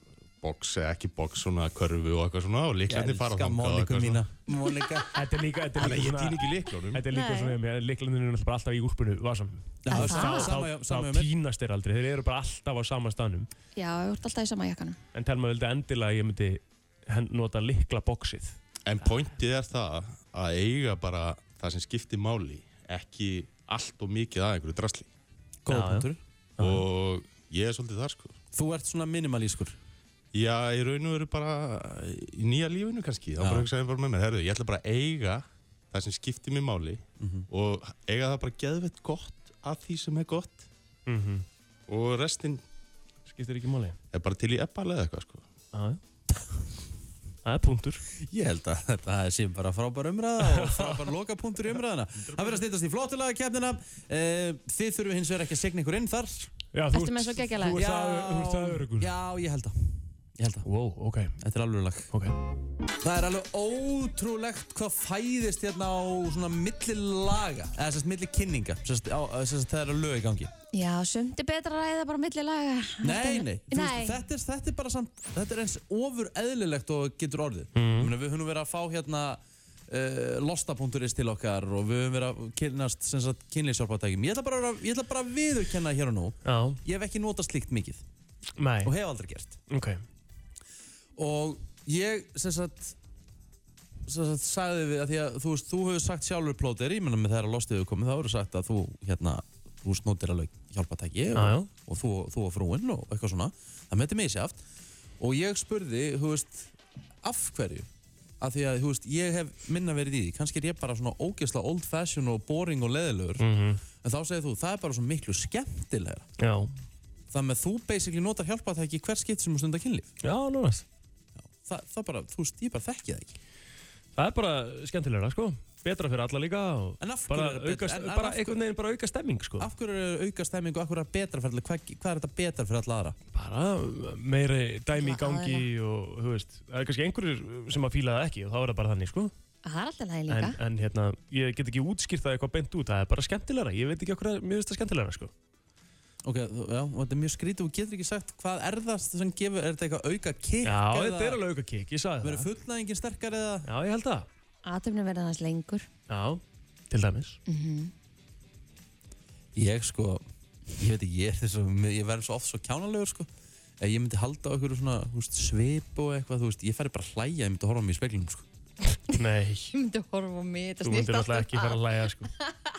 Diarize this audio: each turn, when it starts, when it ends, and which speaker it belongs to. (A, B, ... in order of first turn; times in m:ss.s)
0:00.4-0:04.2 A
0:02.9-0:05.1 B
0:05.1-0:13.5 C
0:05.8-0:07.0 A
0:07.1-0:07.6 D
0:09.8-0:11.3 B
0:09.9-0:10.5 D
0:13.8-0:15.0 D
0:15.1-0:19.4 C
0:18.8-0:25.1 A
0:25.6-0:26.2 B
0:25.7-0:26.9 C
0:26.6-0:28.4 A
0:28.5-0:29.8 B
0:30.3-0:40.7 A
0:33.4-0:33.7 B
0:37.2-0:37.5 B
0:41.0-0:41.4 C
0:41.9-0:42.6 A
0:43.3-0:44.0 C
0:44.1-0:45.5 A
0:45.7-0:46.0 C
0:47.4-0:48.0 C
0:48.2-0:56.5 B
0:50.4-0:51.1 C
0:52.2-0:52.6 C
0:56.7-0:59.1 C
0:56.9-0:57.8 D
0:57.7-1:00.7 B
1:00.6-1:01.4 C
1:01.4-1:02.1 B
1:03.0-1:10.5 B
1:10.7-1:14.2 D
1:13.0-1:28.0 B
1:17.8-1:18.1 C
1:26.4-1:26.8 C
1:28.6-1:28.9 C
1:28.8-1:29.6 B
1:29.7-1:30.0 C
1:31.2-1:33.0 B
1:34.0-1:44.6 B
1:41.3-1:41.7 C
1:45.2-1:47.9 B
1:48.4-1:53.5 B
1:53.4-1:53.8 C
1:54.0-1:56.3 B
1:56.4-1:56.7 C
1:57.3-2:00.1 B
2:00.2-2:00.8 C
2:01.4-2:03.4 B
2:04.2-2:09.7 C
2:07.0-2:08.6 B
2:09.6-2:13.2 B
2:13.3-2:19.3 C
2:15.0-2:15.7 D
2:19.6-2:20.6 D
2:20.3-2:25.3 C
2:26.2-2:31.4 B
2:30.6-2:32.5 C
2:32.2-2:33.7 B
2:33.7-2:34.3 C
2:34.6-2:35.9 D
2:36.1-2:37.4 C
2:37.5-2:37.9 D
2:39.5-2:40.2 B
2:40.8-2:43.3 B
2:43.8-2:48.4 B
2:49.1-2:49.7 C
2:49.7-2:51.8 D
2:50.8-2:52.3 C